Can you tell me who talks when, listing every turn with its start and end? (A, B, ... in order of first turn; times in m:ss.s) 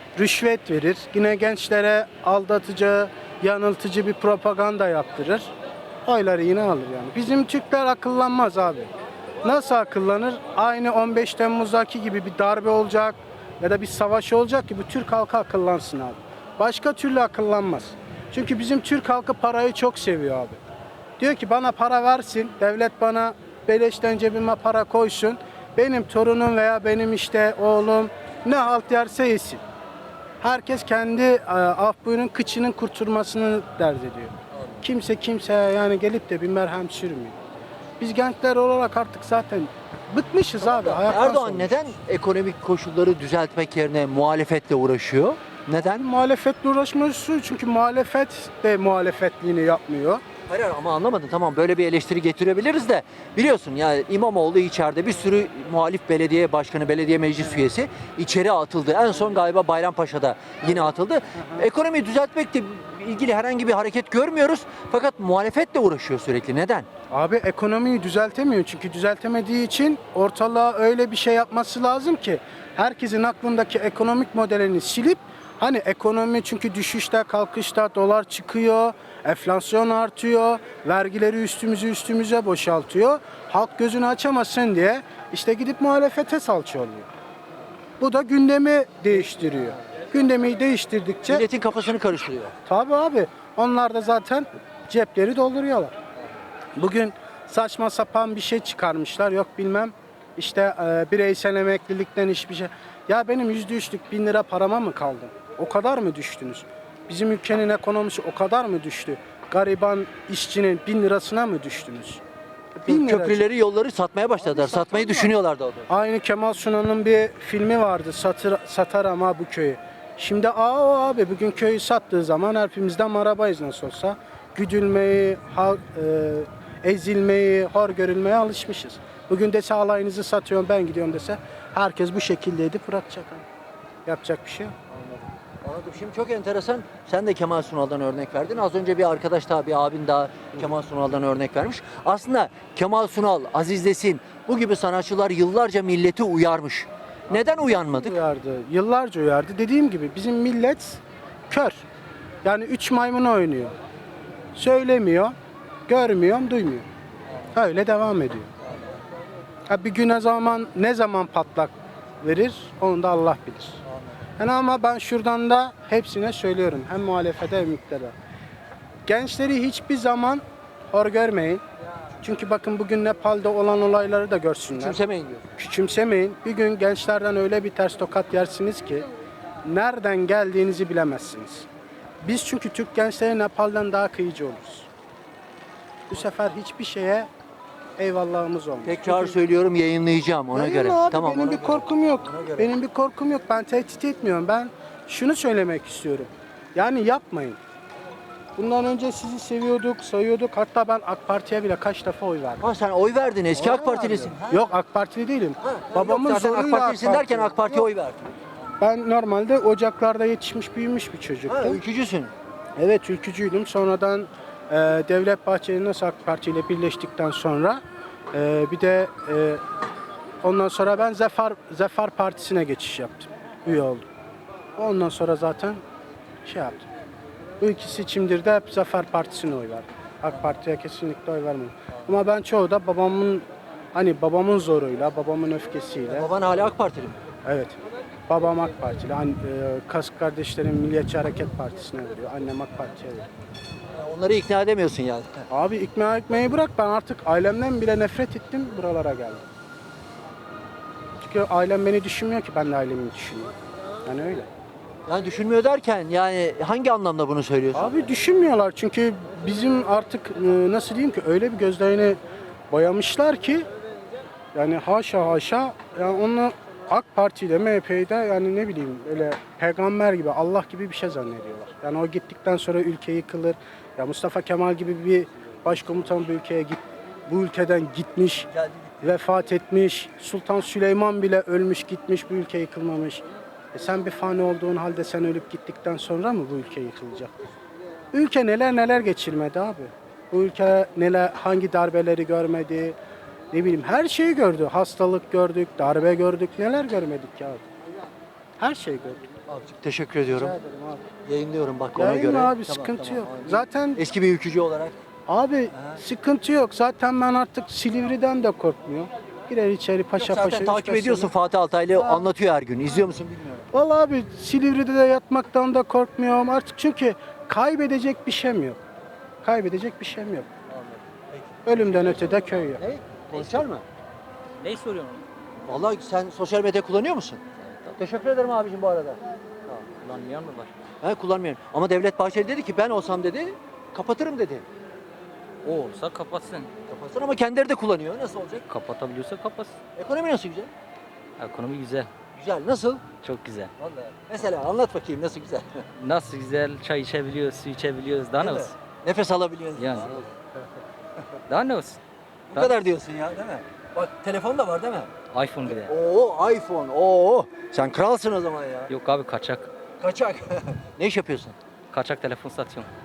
0:00.2-0:05.5 A
0:06.0-0:08.9 A
0:09.4-0:20.6 A
0:21.2-0:29.6 A
0:30.4-0:37.4 A
0:38.0-0:41.9 A
0:40.7-0:46.1 B
0:45.9-0:50.2 A
0:50.5-1:06.9 B
1:01.4-1:01.6 A
1:07.1-1:27.1 A
1:28.0-1:31.5 A
1:31.3-1:32.5 B
1:32.7-1:35.9 A
1:36.8-1:52.2 A
1:52.8-1:53.4 A
1:52.9-1:55.8 B
1:54.4-1:55.3 A
1:55.9-2:13.4 A
2:14.1-2:14.8 A
2:15.6-2:28.2 B
2:27.4-2:31.8 A
2:32.4-2:33.7 A
2:34.6-2:35.3 A
2:35.9-2:36.8 A
2:37.5-2:38.5 A
2:39.7-2:43.8 A
2:44.4-2:48.1 A
2:49.1-2:51.6 A
2:52.2-2:55.0 A
2:54.7-2:55.5 B
2:55.6-2:59.1 A
2:59.6-3:01.7 A
3:02.2-3:04.9 A
3:06.1-3:07.3 A
3:08.0-3:09.4 A
3:08.8-3:12.7 B
3:10.5-3:17.6 A
3:18.6-3:22.6 A
3:22.6-3:24.8 B
3:23.5-3:27.9 A
3:25.6-3:28.3 B
3:28.8-3:31.8 A
3:31.5-3:32.3 B
3:32.8-3:37.8 A
3:38.3-3:39.6 A
3:40.4-3:44.1 A
3:44.8-3:45.8 A
3:46.4-3:46.9 A
3:47.6-3:56.3 A
3:56.1-3:57.2 B
3:57.4-3:57.8 A
3:58.3-4:03.3 A
4:04.0-4:05.5 B
4:05.5-4:09.4 A
4:11.2-4:13.5 A
4:14.1-4:14.5 A
4:15.1-4:18.0 B
4:17.7-4:22.2 A
4:22.7-4:23.7 A
4:24.5-4:38.5 A
4:39.0-4:47.3 A
4:48.1-4:53.0 A
4:53.5-4:57.6 A
4:58.6-4:59.2 A
4:59.5-5:00.6 B
5:00.4-5:01.0 A
5:01.3-5:05.0 B
5:02.0-5:04.0 A
5:05.3-5:11.3 A
5:10.2-5:13.7 B
5:12.0-5:12.2 A
5:13.7-5:18.8 A
5:19.4-5:20.5 A
5:20.7-5:23.8 B
5:21.7-5:22.8 A
5:24.6-5:25.2 C
5:25.7-5:27.4 B
5:27.6-5:27.9 C
5:28.0-5:29.2 B
5:30.0-5:30.7 C
5:31.0-5:34.6 B
5:35.6-5:36.7 C
5:36.9-5:38.6 B
5:38.6-5:39.8 C
5:40.0-5:40.7 B
5:41.4-5:42.1 C
5:42.4-5:43.0 B
5:43.2-5:43.7 C
5:43.8-5:45.8 B
5:46.0-5:48.7 C
5:48.4-5:50.4 B
5:49.8-5:50.1 C
5:51.5-5:52.0 C
5:52.5-5:55.1 B
5:52.5-5:52.8 C
5:55.3-5:55.9 C
5:55.7-5:58.9 B
5:58.9-5:59.7 C
6:00.0-6:01.6 B
6:01.9-6:02.9 C